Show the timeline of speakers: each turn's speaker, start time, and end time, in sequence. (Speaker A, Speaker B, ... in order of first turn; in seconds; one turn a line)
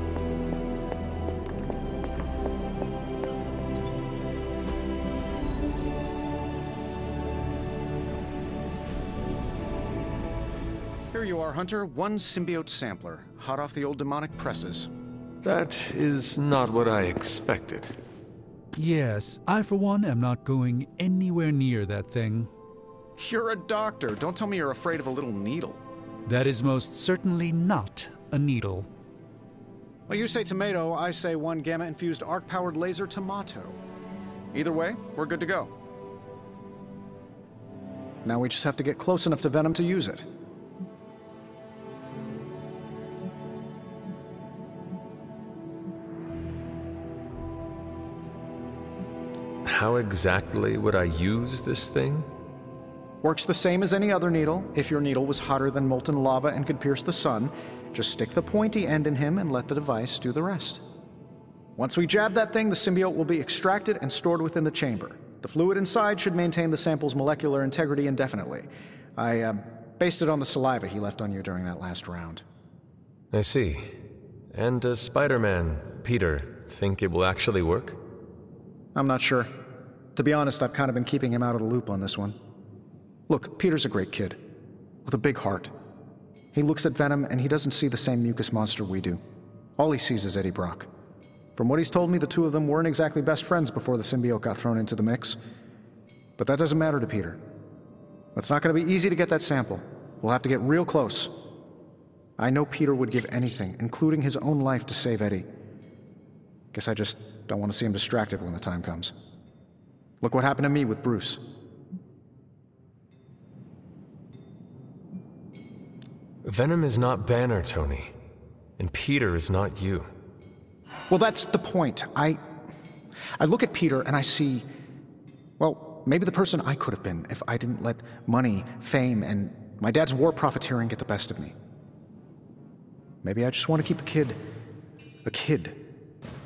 Speaker A: 11.1-14.9
Speaker B: 15.4-17.9
Speaker C: 18.8-22.5
Speaker A: 23.2-25.8
Speaker C: 26.2-28.9
Speaker A: 30.1-33.8
Speaker A: 34.5-35.7
Speaker A: 38.2-40.3
Speaker B: 49.7-52.2
Speaker A: 53.2-60.8
Speaker A: 61.8-72.4
Speaker B: 73.3-73.8
Speaker B: 74.6-77.4
Speaker A: 78.9-79.5
Speaker A: 80.1-82.4
Speaker A: 83.3-84.4
Speaker A: 85.0-85.7
Speaker A: 86.5-89.2
Speaker A: 89.8-90.9
Speaker A: 91.5-95.4
Speaker A: 96.4-97.4
Speaker A: 98.3-101.3
Speaker A: 102.4-105.5
Speaker A: 106.7-109.1
Speaker A: 110.2-111.4
Speaker B: 116.5-118.1
Speaker B: 118.8-120.0
Speaker A: 121.1-122.4
Speaker A: 123.4-124.7
Speaker A: 125.6-131.5
Speaker A: 133.2-134.4
Speaker A: 135.2-135.8